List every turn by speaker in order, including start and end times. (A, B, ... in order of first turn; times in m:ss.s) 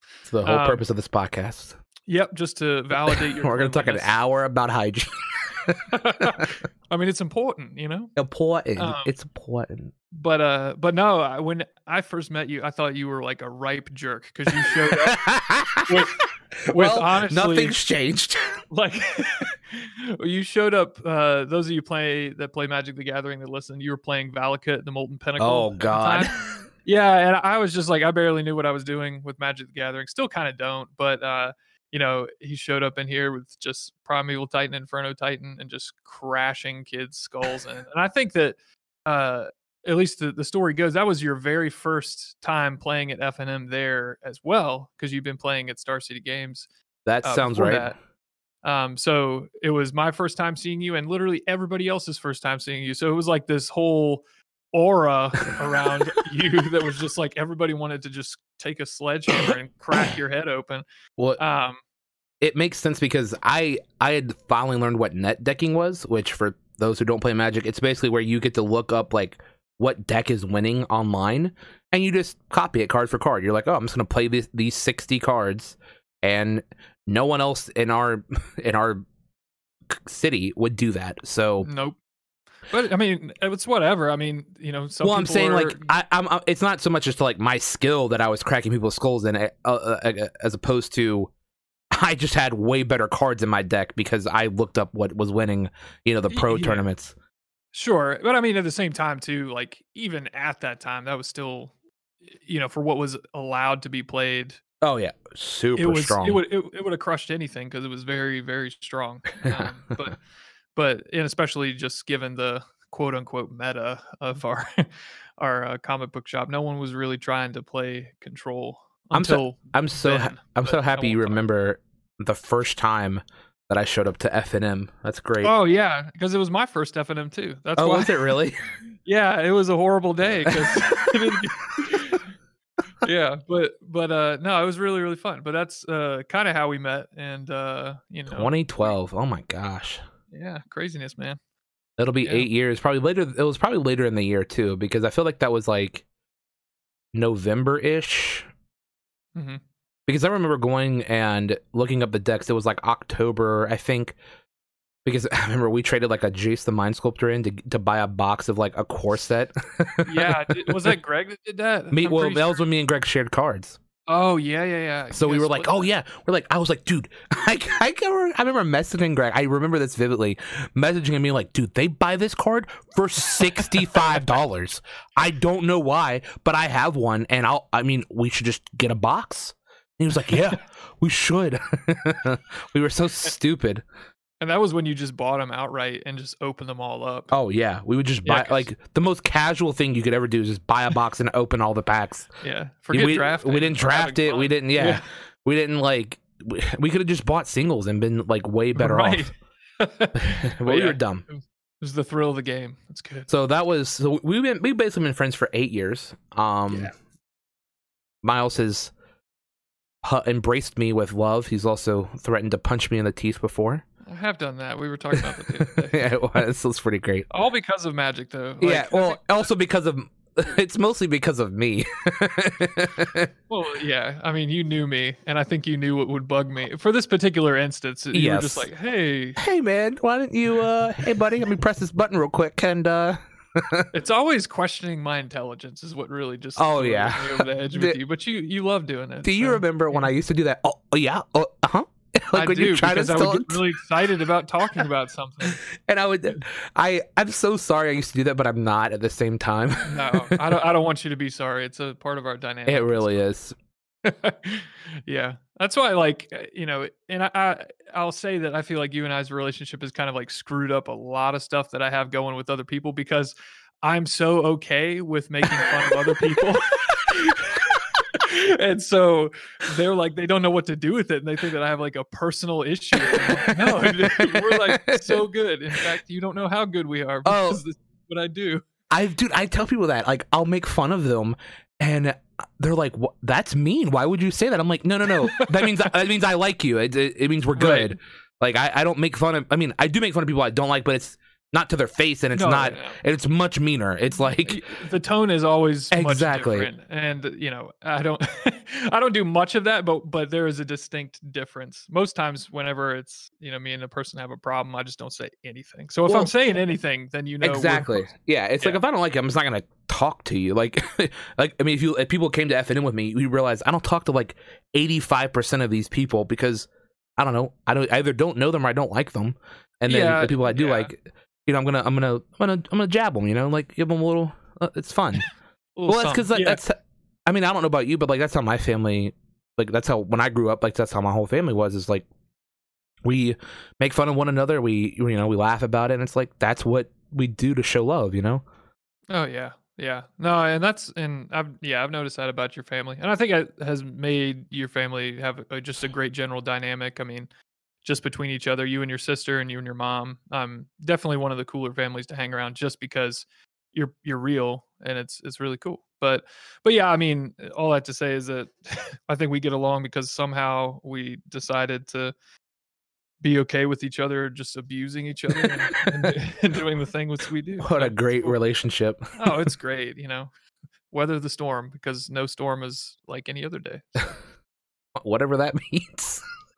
0:00.3-0:01.8 A
0:00.4-0:00.8 B
0:02.1-0:04.1 B
0:03.1-0:05.8 A
0:05.9-0:08.1 B
0:08.2-0:09.9 A
0:08.8-0:09.1 B
0:10.1-0:15.2 B
0:14.5-0:18.6 A
0:15.9-0:16.2 B
0:16.7-0:17.8 B
0:18.7-0:46.7 B
0:25.4-0:26.6 A
0:47.1-0:47.9 A
0:47.2-0:48.0 B
0:48.6-1:00.8 B
1:01.4-1:01.8 B
1:02.4-1:19.0 A
1:19.9-1:21.7 A
1:21.6-1:22.0 B
1:22.7-1:25.9 B
1:25.0-1:31.3 A
1:31.9-1:37.1 A
1:36.3-1:36.8 B
1:37.7-1:41.7 B
1:42.2-1:44.6 B
1:44.8-1:46.4 A
1:45.8-1:50.2 B
1:50.8-2:01.4 B
1:59.1-2:05.5 A
2:05.4-2:08.4 B
2:07.8-2:08.6 A
2:09.0-2:12.3 B
2:10.5-2:11.1 A
2:13.0-2:18.9 B
2:18.3-2:20.0 A
2:20.3-2:21.4 B
2:22.0-2:26.0 A
2:27.1-2:28.5 A
2:29.4-2:29.6 B
2:30.1-2:34.2 A
2:35.0-2:40.9 A
2:40.0-2:42.6 B
2:41.9-2:43.8 A
2:44.1-2:45.9 B
2:45.1-3:03.8 A
3:04.4-3:07.3 B
3:07.3-3:12.3 A
3:08.2-3:08.7 B
3:12.4-3:15.0 B
3:12.9-3:19.3 A
3:18.8-3:23.3 B
3:20.2-3:21.2 A
3:23.3-3:26.9 A
3:28.2-3:28.9 A
3:30.0-3:33.8 A
3:34.1-3:36.1 B
3:35.2-3:37.3 A
3:37.3-3:39.2 B
3:38.6-3:43.3 A
3:43.5-3:49.4 B
3:48.1-3:48.7 A
3:49.4-3:53.9 A
3:53.9-4:00.1 B
3:56.6-3:58.0 A
3:59.2-4:03.8 A
4:02.3-4:05.6 B
4:05.9-4:10.5 A
4:09.9-4:13.2 B
4:12.7-4:13.6 A
4:14.0-4:38.6 B
4:25.6-4:26.2 A
4:33.0-4:35.3 A
4:37.2-4:37.6 A
4:38.9-4:54.6 A
4:45.2-4:45.9 B
4:47.6-4:48.0 B
4:52.3-4:53.0 B
4:54.2-5:08.8 B
4:55.9-4:56.7 A
5:07.4-5:25.3 A
5:19.9-5:20.9 B
5:25.8-5:26.6 B
5:25.9-5:32.1 A
5:33.0-5:38.4 A
5:39.1-5:47.3 B
5:47.8-6:02.1 B
6:03.2-6:08.4 B
6:05.4-6:06.1 A
6:07.6-6:09.4 A
6:09.2-6:10.3 B
6:10.9-6:14.2 B
6:15.0-6:16.2 A